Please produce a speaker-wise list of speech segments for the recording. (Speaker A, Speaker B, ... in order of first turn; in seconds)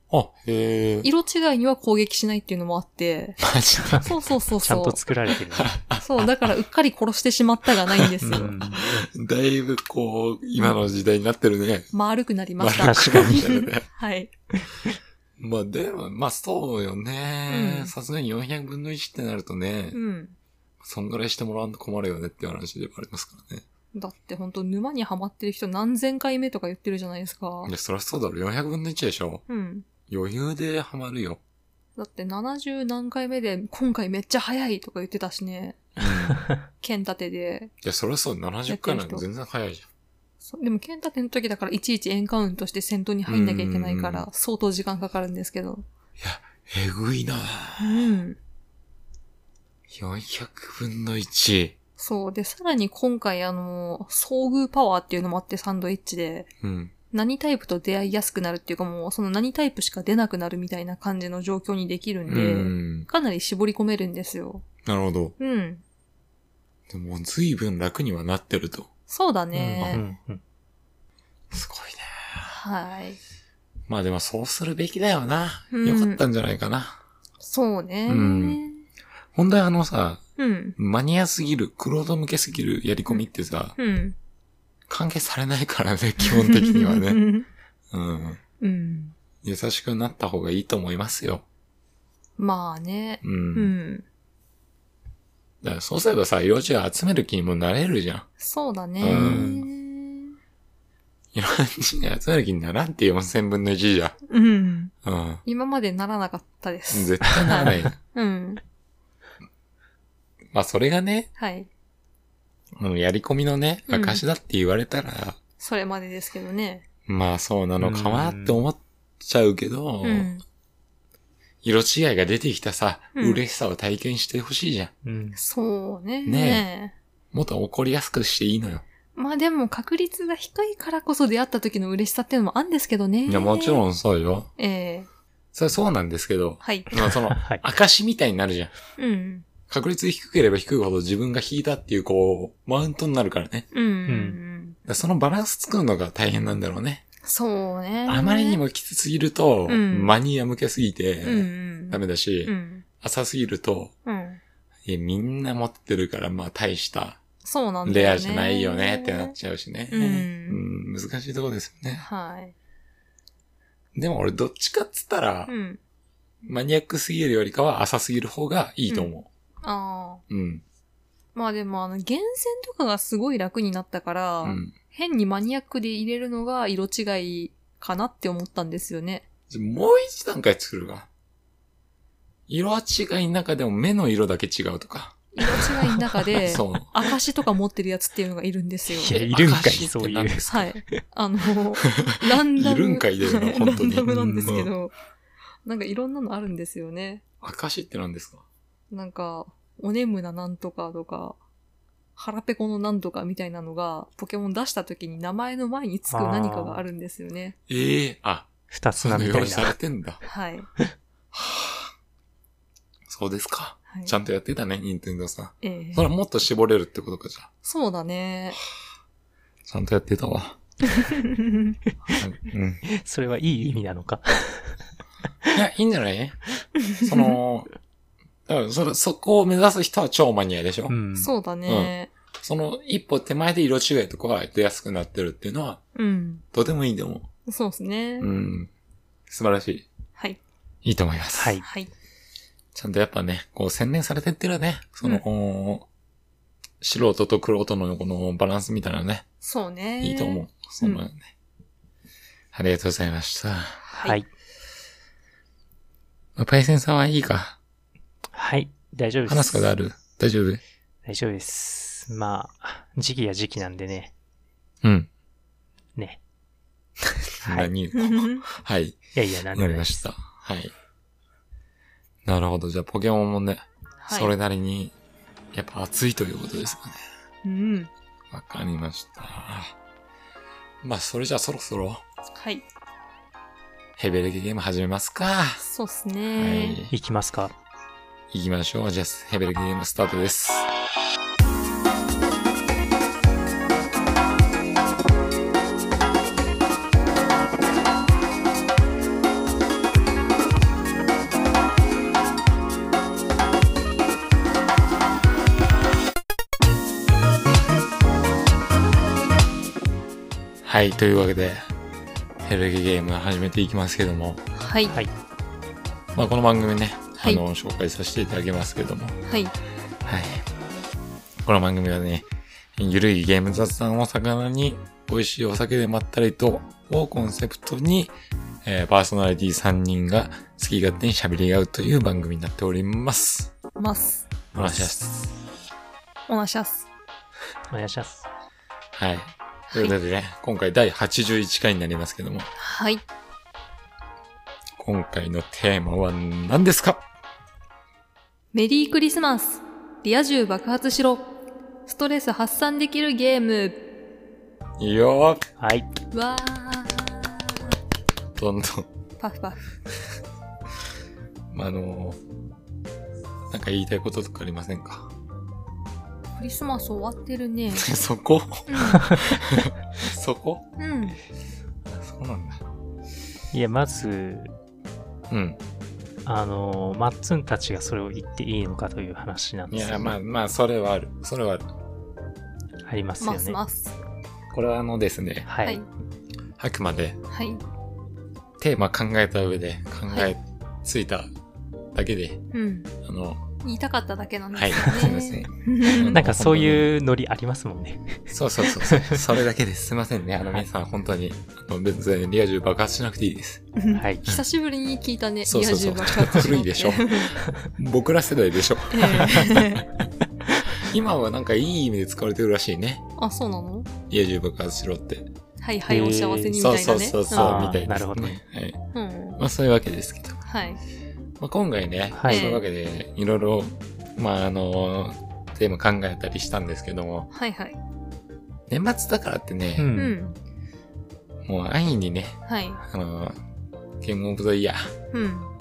Speaker A: 0.1-1.1, 3.4-4.1, 5.5-6.5, 7.9-11.9, 12.6-13.9, 15.4-20.0, 20.8-23.6, 27.6-29.4, 30.1-31.4, 36.0-36.4, 37.8-39.9, 43.3-44.3, 46.2-48.2, 49.9-51.8, 56.6-56.9, 62.3-63.1, 64.8-65.3, 66.9-68.9, 71.5-72.5, 73.9-77.0, 78.1-78.6, 79.3-80.2, 80.8-83.8, 84.9-87.3, 87.9-88.4, 89.4-91.5, 93.2-93.7, 95.6-98.3, 99.0-99.5, 101.3-104.2, 105.0-105.4, 106.9-108.0, 110.5-111.3, 112.8-115.4, 117.1-120.3, 121.6-124.9, 126.2-126.7, 127.3-128.8, 133.3-134.5, 135.5-138.7, 139.7-143.7, 144.8-147.0, 148.1-153.9, 154.9-157.2, 157.8-162.1, 163.9-165.5, 166.4-169.3, 170.3-170.6, 174.4-174.7, 179.5-181.1, 182.5-185.3, 186.4-186.9, 189.1-190.7, 191.8-194.7, 197.4-198.4, 207.7-210.2, 211.3-211.9, 213.1-217.5, 219.7-220.6, 222.1-222.8, 225.5-226.4, 227.0-227.7, 228.5-231.0, 231.7-235.8, 236.5-237.3, 238.2-238.7, 239.3-239.9, 240.8-241.6, 242.8-245.9, 246.8-249.3, 250.0-251.3, 252.5-253.8, 256.4-257.6, 259.3-260.6, 264.8-265.1, 267.3-269.0, 269.5-270.7, 272.2-274.9, 275.5-277.0, 278.3-279.8, 280.8-282.0, 284.0-285.6, 286.4-286.9, 288.3-290.7, 310.6-311.7, 312.4-314.4, 316.1-319.2, 320.1-320.4, 321.4-328.1, 328.6-333.5, 334.5-335.3, 339.0-342.5, 344.8-347.0, 354.8-355.5, 358.4-358.9, 361.5-362.2, 363.5-365.1, 367.8-370.7, 371.9-372.6, 375.3-375.6, 379.7-381.6, 384.5-385.5, 386.6-387.2, 388.6-391.3, 391.9-392.4, 393.0-393.4, 394.5-396.9, 398.3-403.6, 405.4-409.8, 410.6-413.1, 414.1-415.3, 416.6-418.8, 419.4-420.4, 421.4-427.3, 428.7-429.9, 431.4-433.4, 434.0-434.9
Speaker B: 1.0-3.4, 4.0-5.0, 6.0-8.6, 11.9-14.3, 17.5-17.9, 19.9-20.4, 23.9-27.7, 29.5-29.9, 32.0-35.9, 36.8-37.7, 38.7-39.2, 40.5-45.9, 47.8-48.4, 52.0-56.5, 57.1-64.7, 65.4-65.8, 69.1-70.0, 72.5-73.2, 75.7-76.2, 77.4-78.8, 80.4-80.8, 83.8-84.2, 86.2-87.5, 88.6-89.1, 92.4-94.0, 98.4-100.4, 104.3-104.9, 105.5-108.6, 111.4-111.7, 113.9-114.2, 115.6-116.8, 120.0-120.4, 123.2-123.4, 125.4-126.9, 129.2-133.8, 134.6-135.1, 136.6-136.9, 139.0-139.5, 143.7-144.8, 147.2-148.6, 149.7-150.2, 151.2-152.8, 154.1-154.4, 157.4-159.3, 159.9-160.6, 162.0-162.6, 165.5-165.8, 169.6-170.2, 171.3-179.2, 185.3-189.2, 190.5-194.9, 195.7-197.2, 198.9-201.4, 202.2-207.6, 210.2-210.7, 213.9-214.1, 215.6-216.1, 217.6-218.6, 221.0-221.8, 226.9-227.3, 231.2-232.1, 235.9-236.4, 237.5-238.3, 241.6-241.9, 249.4-251.0, 253.8-254.2, 267.9-268.4, 274.1-274.3, 277.4-277.9, 282.4-282.7, 285.6-286.8, 314.6-315.0, 319.3-319.5, 333.8-334.9, 336.3-336.9, 339.7-339.9, 342.6-343.0, 348.5-351.3, 351.9-353.8, 356.1-357.7, 359.2-359.6, 366.4-367.9, 368.7-369.2, 370.8-371.2, 383.2-384.0, 387.3-387.6, 392.5-392.9, 393.6-396.1, 403.8-407.4, 408.9-409.9, 413.2-413.9, 415.6-417.8, 418.9-419.4, 420.5-420.8, 422.3-422.6, 427.3-427.8, 429.9-430.4, 432.5-432.8, 435.1-435.5
Speaker C: 4.6-5.7, 8.2-9.1, 12.8-13.5, 69.5-70.4, 99.1-99.7, 117.8-118.6, 125.0-125.4, 137.1-137.6, 144.1-144.4, 188.9-190.9, 194.1-194.7, 206.1-206.8, 208.7-209.8, 222.8-224.8, 230.9-231.3, 241.4-241.7, 254.0-254.3, 258.3-259.6, 261.1-264.1, 265.9-266.2, 267.4-267.7, 269.1-270.0, 286.9-287.5, 337.7-338.3, 355.6-355.9, 373.5-374.5, 376.2-380.2, 382.8-383.6, 385.5-385.8, 396.1-399.3, 403.9-404.2, 415.9-416.6, 417.3-418.4, 422.1-422.5, 429.8-430.2